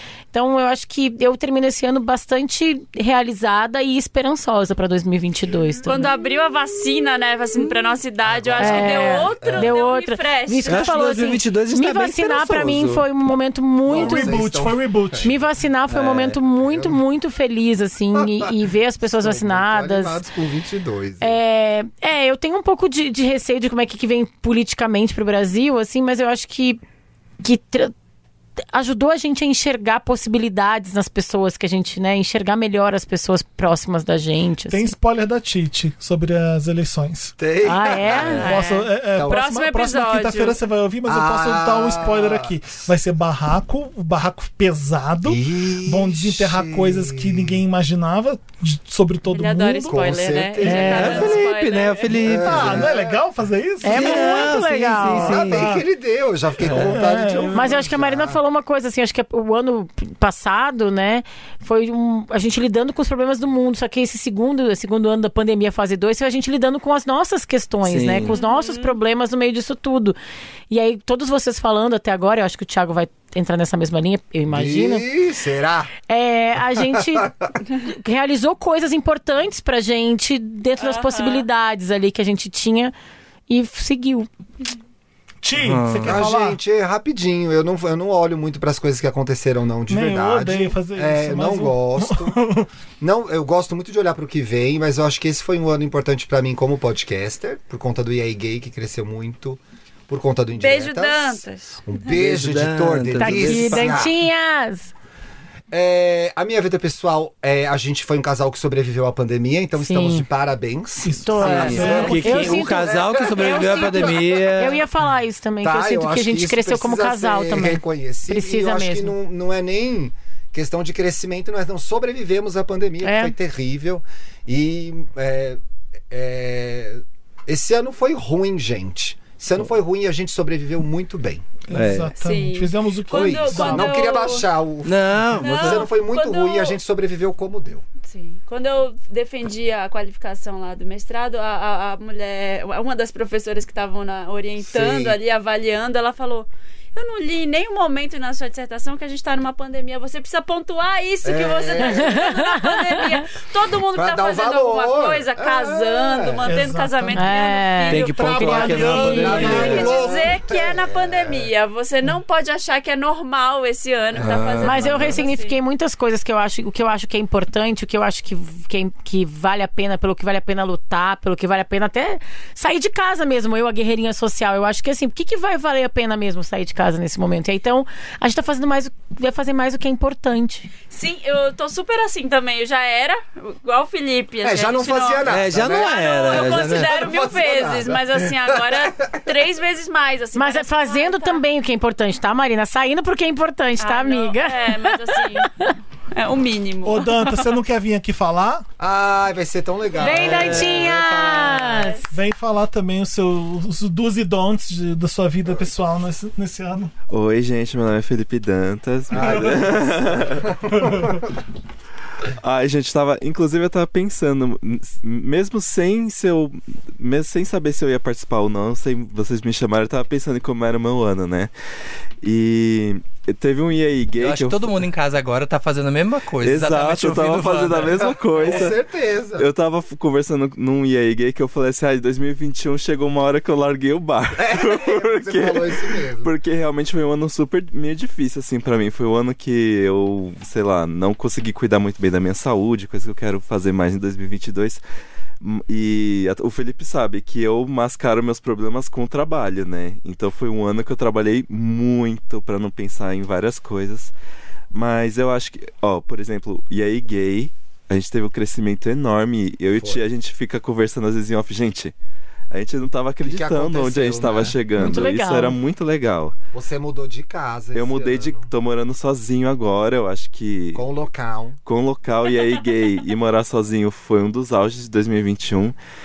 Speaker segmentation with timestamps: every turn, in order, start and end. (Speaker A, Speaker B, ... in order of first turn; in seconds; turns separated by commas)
Speaker A: 0.3-6.1, Speaker B: 5.8-10.9, Speaker C: 8.2-9.8, Speaker A: 8.6-14.4, Speaker D: 10.7-13.1, Speaker C: 13.9-15.4, Speaker E: 13.9-15.4, Speaker A: 15.2-20.2, Speaker D: 15.9-16.4, Speaker C: 18.2-18.5, Speaker C: 19.0-21.4, Speaker A: 21.2-26.8, Speaker A: 27.4-27.9, Speaker A: 28.7-34.9, Speaker E: 34.7-37.4, Speaker C: 37.4-38.5, Speaker A: 37.6-38.7, Speaker E: 38.4-51.4, Speaker B: 38.4-40.6, Speaker C: 39.1-39.4, Speaker C: 41.1-42.9, Speaker C: 45.2-47.6, Speaker B: 49.3-52.3, Speaker C: 49.9-50.8, Speaker A: 50.6-51.2, Speaker D: 50.7-52.9, Speaker C: 52.2-53.2, Speaker E: 52.3-54.5, Speaker A: 53.8-55.4, Speaker D: 53.8-55.7, Speaker E: 55.1-55.8, Speaker C: 55.2-58.4, Speaker D: 56.6-57.0, Speaker E: 56.7-57.9, Speaker A: 57.5-70.2, Speaker D: 67.8-68.3, Speaker B: 68.3-69.0, Speaker A: 70.7-75.1, Speaker C: 74.5-75.9, Speaker A: 76.1-82.9, Speaker C: 76.7-77.6, Speaker B: 80.8-81.5, Speaker A: 83.5-84.3, Speaker E: 85.4-86.6, Speaker D: 85.5-86.2, Speaker C: 86.0-92.4, Speaker E: 89.9-92.7, Speaker C: 93.0-104.1, Speaker B: 100.6-101.8, Speaker D: 102.1-104.1, Speaker A: 103.2-104.9, Speaker C: 105.7-114.5, Speaker A: 109.8-110.3, Speaker E: 111.0-112.7, Speaker A: 111.2-119.2, Speaker D: 111.4-114.8, Speaker B: 111.8-112.2, Speaker C: 115.6-131.6, Speaker A: 123.0-123.3, Speaker E: 131.7-134.1, Speaker D: 131.7-132.2, Speaker B: 132.2-134.5, Speaker C: 133.1-137.8, Speaker D: 134.8-135.9, Speaker B: 135.4-136.8, Speaker B: 138.1-165.5, Speaker C: 144.6-145.2, Speaker C: 151.2-152.3, Speaker A: 151.8-153.3, Speaker C: 153.9-156.5, Speaker E: 156.5-157.4, Speaker A: 157.1-159.6, Speaker D: 157.9-159.9, Speaker E: 158.1-160.3, Speaker C: 159.1-161.5, Speaker D: 164.1-165.2, Speaker A: 164.6-180.7, Speaker B: 180.9-191.4, Speaker C: 184.4-189.2, Speaker D: 185.2-186.9, Speaker A: 190.3-195.8, Speaker B: 193.8-197.2, Speaker E: 196.8-198.7, Speaker C: 198.8-201.9, Speaker B: 199.9-200.4, Speaker A: 200.0-202.1, Speaker D: 200.3-200.8, Speaker B: 201.7-202.0, Speaker E: 202.1-206.9, Speaker F: 207.1-210.6, Speaker C: 209.1-211.3, Speaker E: 209.2-209.5, Speaker E: 210.7-211.2, Speaker F: 212.4-221.5, Speaker F: 222.2-224.8, Speaker D: 224.2-228.7, Speaker F: 226.4-228.8, Speaker C: 228.0-229.5, Speaker F: 229.4-244.8, Speaker C: 234.4-236.3, Speaker F: 245.4-254.1, Speaker F: 254.7-261.9, Speaker C: 259.8-260.0, Speaker F: 262.5-266.4, Speaker C: 263.2-264.6, Speaker A: 264.8-265.6, Speaker C: 266.5-268.5, Speaker F: 267.7-270.8, Speaker C: 270.8-271.6, Speaker F: 271.6-275.8